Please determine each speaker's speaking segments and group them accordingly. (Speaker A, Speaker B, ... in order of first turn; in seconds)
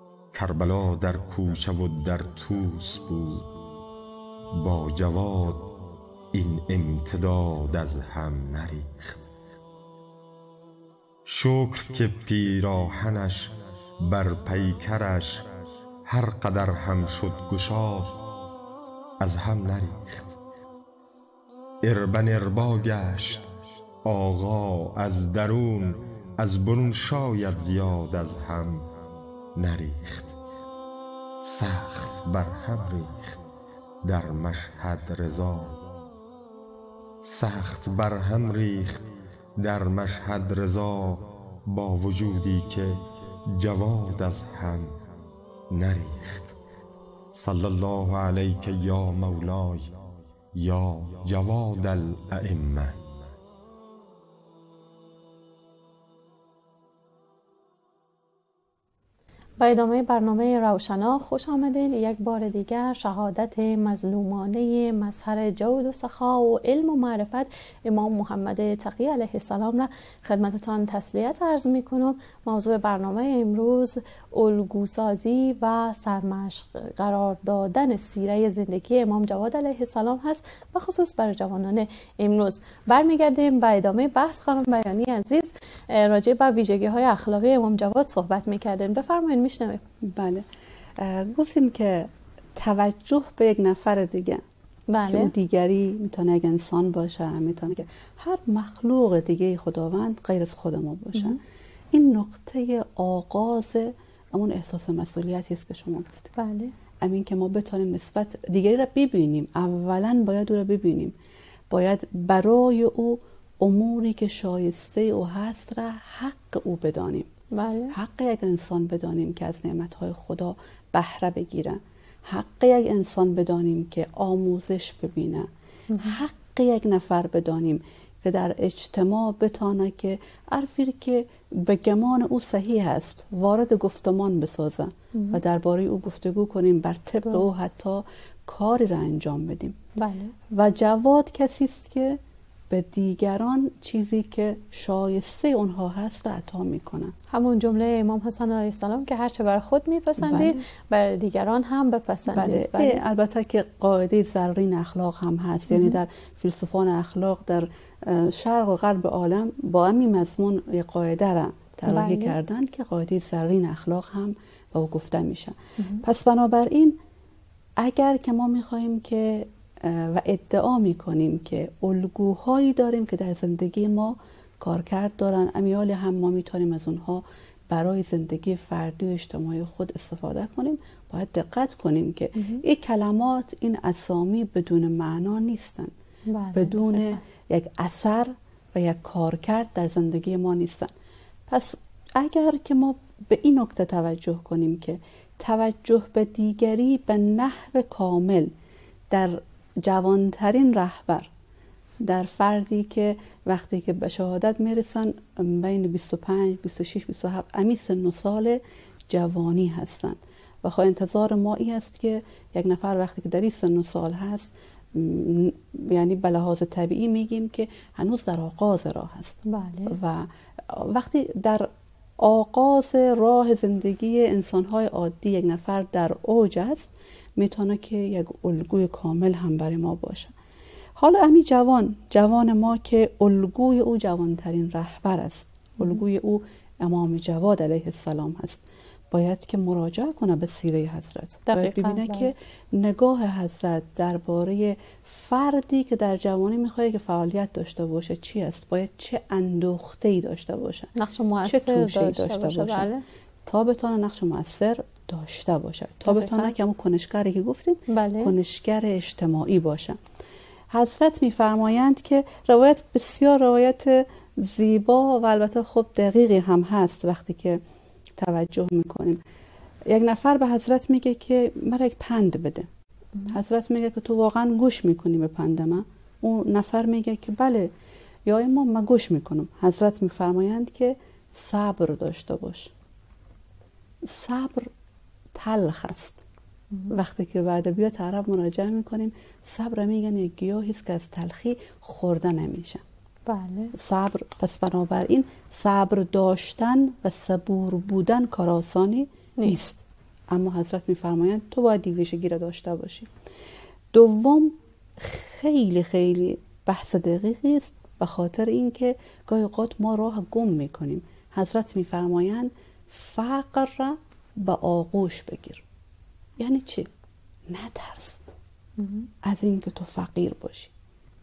Speaker A: 0.3-3.5, 4.5-5.7, 6.3-9.3, 11.3-15.5, 16.1-18.2, 19.2-20.4, 21.8-23.5, 24.0-28.9, 29.6-30.4, 31.4-33.4, 34.0-35.8, 37.2-45.0, 45.7-46.6, 47.3-49.9, 50.5-53.2
Speaker B: 59.6-89.8, 94.9-95.3, 106.4-106.7, 117.5-117.9, 125.9-126.2, 135.1-135.4, 140.0-140.3, 147.3-153.0, 155.7-156.0, 161.9-162.4, 165.8-166.0, 182.4-182.6, 186.3-187.2, 219.5-220.0, 241.5-242.3, 251.0-253.0, 256.1-256.5, 257.9-258.4, 293.3-293.7, 318.8-319.1
Speaker C: 90.0-90.5, 91.0-94.4, 95.0-101.4, 101.9-106.3, 107.0-111.2, 111.7-117.3, 117.9-125.5, 126.0-139.8, 140.5-147.2, 150.2-150.6, 152.3-167.0, 167.8-185.9, 186.5-190.9, 191.5-198.5, 199.1-201.3, 202.0-221.7, 222.2-230.3, 231.0-250.9, 251.4-252.9, 253.5-260.0, 260.7-267.6, 268.2-269.2, 269.9-272.7, 273.3-277.7, 278.3-282.7, 284.1-284.7, 285.3-286.2, 286.9-292.8, 293.8-303.1, 303.9-315.6, 316.4-316.9, 317.5-318.2, 319.2-320.7